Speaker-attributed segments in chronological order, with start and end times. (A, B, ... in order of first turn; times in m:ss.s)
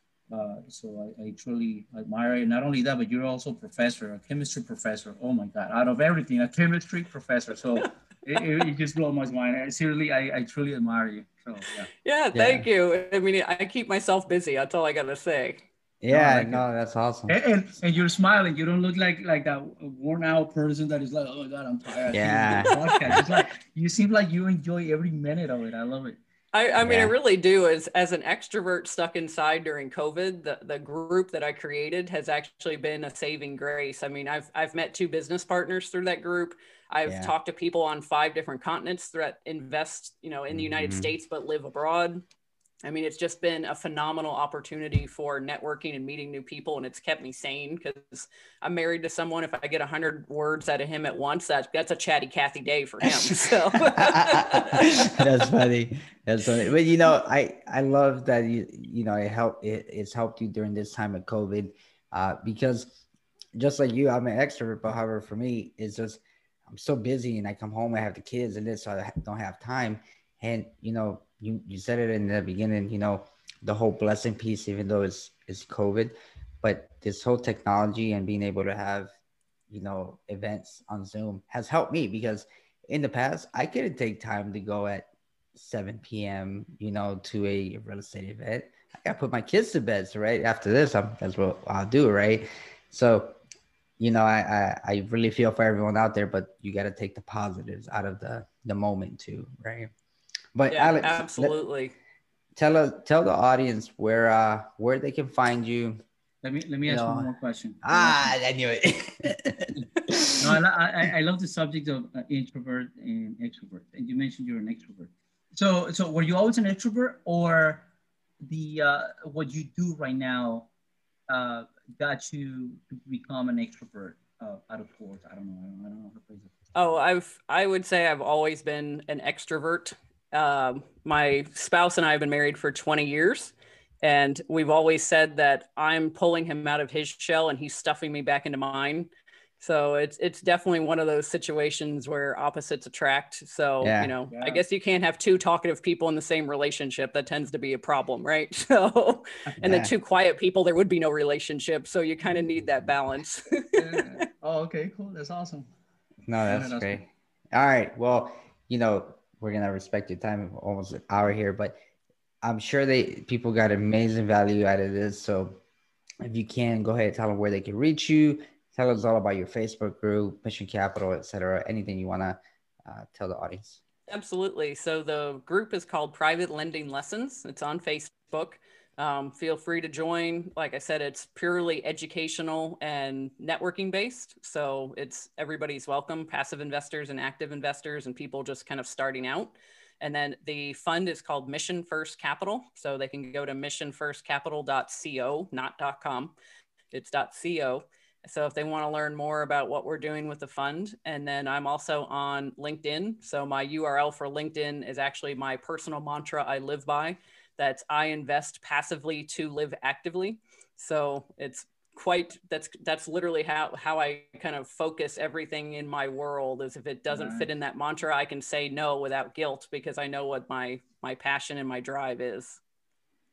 0:00.3-0:11.9 A
0:12.0-0:15.7 B
0:12.3-0:12.6 C
0:16.0-0:17.4 C
0:16.1-0:16.6 A
0:17.3-0:26.2 A
0:22.1-0:23.2 C
0:22.7-0:23.1 B
0:26.5-0:42.2 B
0:26.8-0:27.1 C
0:37.0-0:37.3 C
0:40.5-0:41.1 C
0:42.8-0:55.5 B
0:53.8-1:03.0 C
1:03.6-1:19.1 C
1:19.7-1:33.4 C
1:34.0-1:39.9 C
1:40.6-1:41.6 C
1:40.7-1:41.9 B
1:42.6-1:46.0 C
1:46.4-1:48.3 A
1:46.8-1:47.3 C
1:47.8-1:50.6 C
1:50.4-1:57.9 A
1:58.4-2:00.7 A
2:01.3-2:07.0 A
2:06.7-2:34.2 B
2:23.8-2:24.1 C
2:24.3-2:24.6 A
2:29.6-2:29.9 C
2:33.8-2:35.7 A
2:36.3-2:41.8 C
2:36.4-2:37.0 A
2:42.4-2:45.6 C
2:46.2-2:53.8 C
2:54.1-3:16.3 B
3:16.9-3:42.6 B
3:37.1-3:37.5 A